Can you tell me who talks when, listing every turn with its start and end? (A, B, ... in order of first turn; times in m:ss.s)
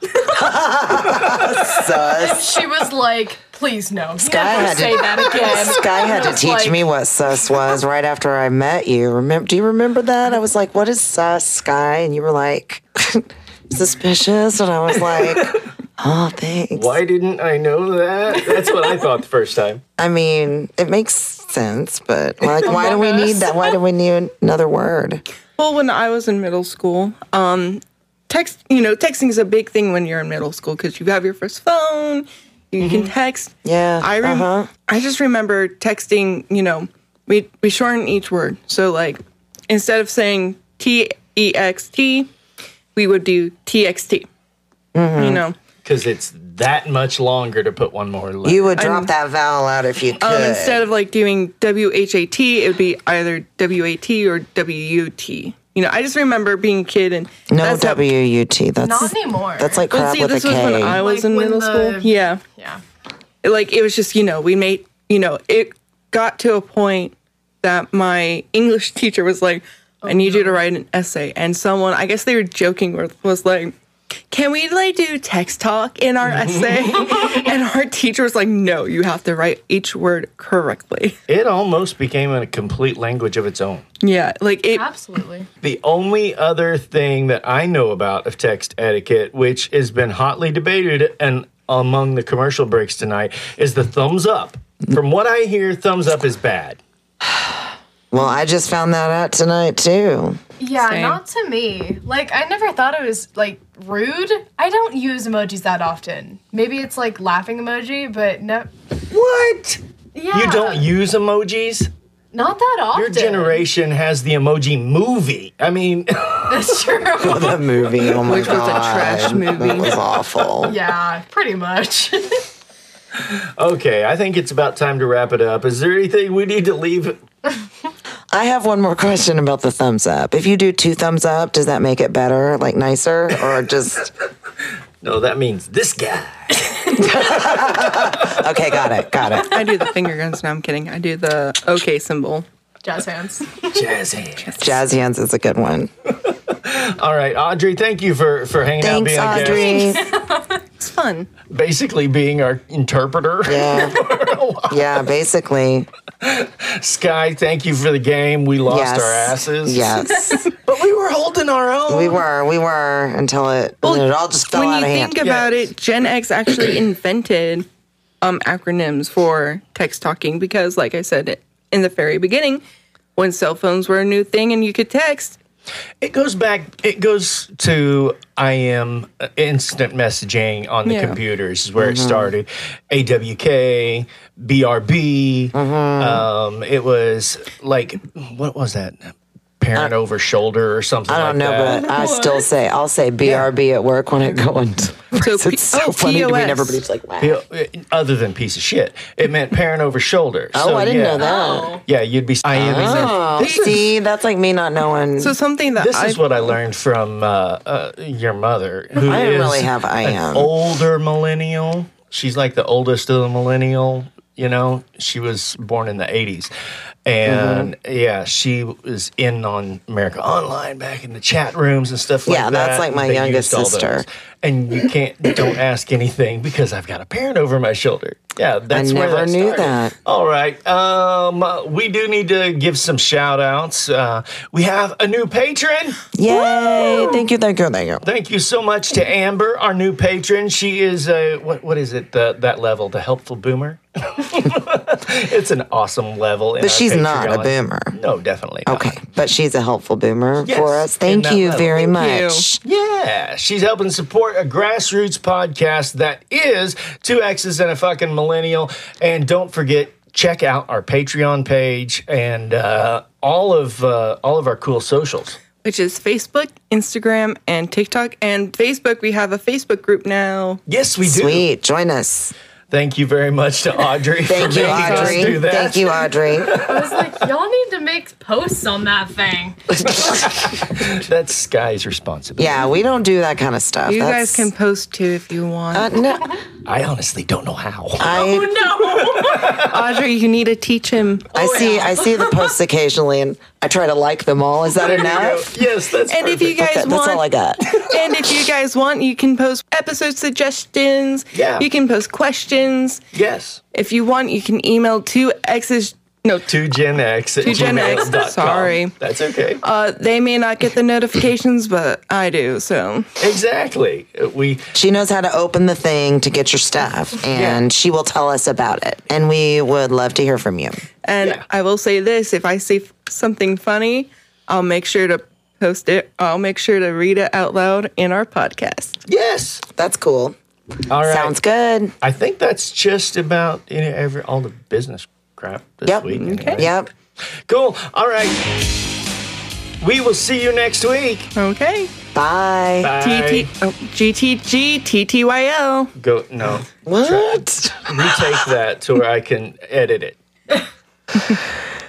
0:00.3-0:02.6 A
0:01.2-0:01.7 B
0:02.2-0:06.8 C
0:04.2-0:17.0 A
0:16.7-0:19.8 B
0:20.0-0:25.2 A
0:22.6-0:23.7 C
0:25.6-0:42.3 D
0:32.8-0:33.1 B
0:33.6-0:34.7 A
0:43.0-0:44.3 D
0:45.0-0:45.4 A
0:45.2-0:45.6 D
0:45.8-0:48.8 B
0:48.4-0:50.8 A
0:48.8-0:49.1 D
0:50.2-0:58.0 D
0:57.5-1:01.0 A
0:58.8-0:59.9 C
0:59.9-1:02.4 D
1:00.9-1:02.8 C
1:03.4-1:13.7 D
1:10.0-1:10.6 C
1:14.3-1:21.2 D
1:16.3-1:17.3 B
1:21.3-1:23.8 B
1:24.0-1:24.9 D
1:24.7-1:25.5 C
1:25.6-1:36.8 B
1:37.2-1:40.4 A
1:40.6-1:48.7 C
1:40.9-1:41.2 D
1:49.1-1:49.8 B
1:50.2-1:50.9 C
1:50.3-1:51.9 B
1:52.3-1:53.6 C
1:52.9-1:59.0 B
1:56.5-1:57.7 C
1:57.2-2:00.8 A
1:58.2-2:00.0 D
2:00.6-2:02.5 C
2:03.2-2:07.2 B
2:08.3-2:14.1 A
2:15.0-2:18.3 B
2:17.0-2:19.6 A
2:19.4-2:22.5 D
2:22.8-2:23.8 C
2:23.7-2:24.7 B
2:24.6-2:25.9 A
2:26.3-2:30.0 B
2:28.8-2:30.1 A
2:29.3-2:30.6 C
2:30.8-2:31.3 D
2:31.5-2:35.0 B
2:33.5-2:34.0 A
2:34.7-2:35.9 A
2:36.2-2:40.0 B
2:38.7-2:40.5 A
2:40.2-2:40.5 C
2:40.6-2:42.2 B
2:41.9-2:45.2 A
2:43.8-2:47.7 D
2:45.2-2:45.6 B
2:48.2-2:52.6 D
2:53.2-2:55.4 D
2:56.0-3:12.0 B
3:00.8-3:01.2 D
3:01.8-3:02.3 A
3:05.5-3:06.3 A
3:11.1-3:17.4 A
3:11.9-3:12.4 C
3:15.2-3:16.8 D
3:17.2-3:21.3 B
3:20.5-3:21.8 A
3:21.2-3:21.8 C
3:21.8-3:23.9 B
3:22.5-3:25.4 A
3:25.2-3:26.5 D
3:25.8-3:36.5 B
3:29.0-3:30.5 A
3:37.1-3:56.1 B
3:37.3-3:37.7 A
3:42.3-3:44.0 A
3:48.7-3:49.9 A
3:56.2-3:58.0 A
3:58.0-4:09.0 B
4:06.6-4:08.0 A
4:08.7-4:12.6 A
4:10.4-4:11.8 B
4:11.7-4:12.5 D
4:12.6-4:25.4 B
4:25.6-4:30.6 D
4:30.7-4:31.5 B
4:31.0-4:32.3 A
4:32.7-4:37.2 B
4:34.3-4:36.6 A
4:34.6-4:35.4 D
4:36.6-4:39.7 C
4:39.9-4:42.7 B
4:42.4-4:44.5 A
4:43.9-4:45.9 D
4:45.7-4:46.4 A
4:46.6-4:49.7 B
4:48.0-4:48.6 A
4:48.0-4:49.6 C
4:49.5-4:51.3 D
4:51.3-4:52.5 C
4:51.3-4:55.5 A
4:54.7-4:56.6 B
4:56.1-5:03.0 D
4:56.5-4:57.8 A
5:01.3-5:01.7 B
5:03.1-5:03.6 B
5:03.7-5:06.5 D
5:06.5-5:09.6 B
5:07.4-5:09.0 D
5:09.6-5:13.1 D
5:13.2-5:14.7 B
5:14.7-5:20.8 A
5:17.3-5:17.7 B
5:21.1-5:29.0 D
5:29.1-5:29.6 B
5:29.8-5:30.4 A
5:30.9-5:31.4 B
5:31.0-5:31.9 A
5:32.0-5:36.8 B
5:35.9-5:36.9 A
5:36.2-5:36.7 D
5:37.5-5:38.9 B
5:39.8-5:41.3 B
5:41.4-5:41.9 D
5:42.2-5:43.0 A
5:42.8-5:43.5 B
5:43.0-5:45.9 D
5:46.0-5:50.2 B
5:46.8-5:48.2 A